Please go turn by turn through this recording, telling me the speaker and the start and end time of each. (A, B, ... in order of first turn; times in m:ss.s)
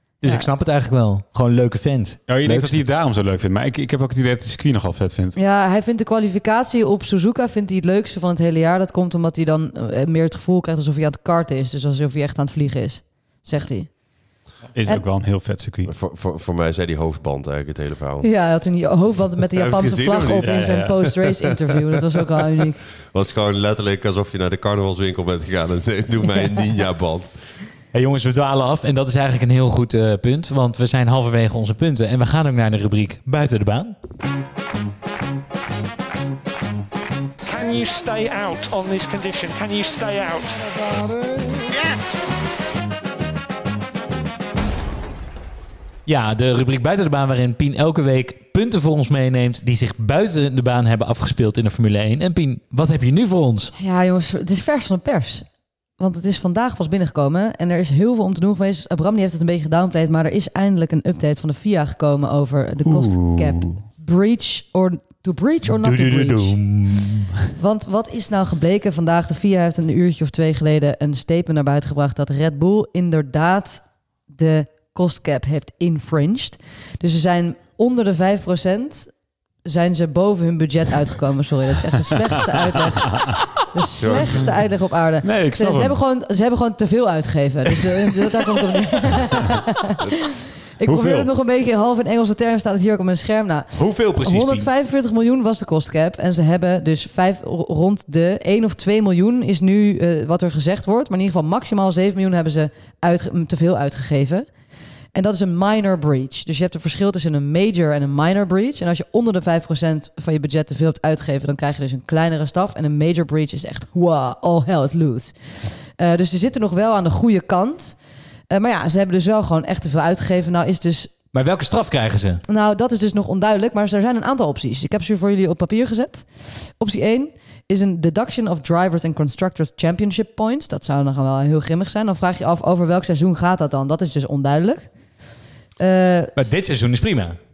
0:00.2-0:02.8 A
0:02.3-0:05.4 B
0:05.4-0:13.9 C
0:14.7-0:15.9 B
0:15.8-0:18.3 D
0:18.2-0:22.9 C
0:19.5-0:21.4 D
0:20.4-0:21.0 B
0:23.0-0:27.5 D
0:27.9-0:33.9 A
0:37.4-0:40.5 E
0:46.0-0:53.7 A
0:53.8-0:55.5 C
0:56.0-1:06.6 C
1:02.8-1:03.8 B
1:05.7-1:07.4 A
1:07.6-1:19.1 C
1:19.6-1:29.9 C
1:24.0-1:24.6 B
1:25.2-1:26.0 B
1:30.8-1:44.5 C
1:30.8-1:31.3 B
1:33.7-1:34.7 A
1:45.1-1:58.0 C
1:58.5-2:01.1 C
2:01.3-2:02.4 A
2:02.4-2:14.9 C
2:15.8-2:16.5 C
2:16.4-2:17.4 A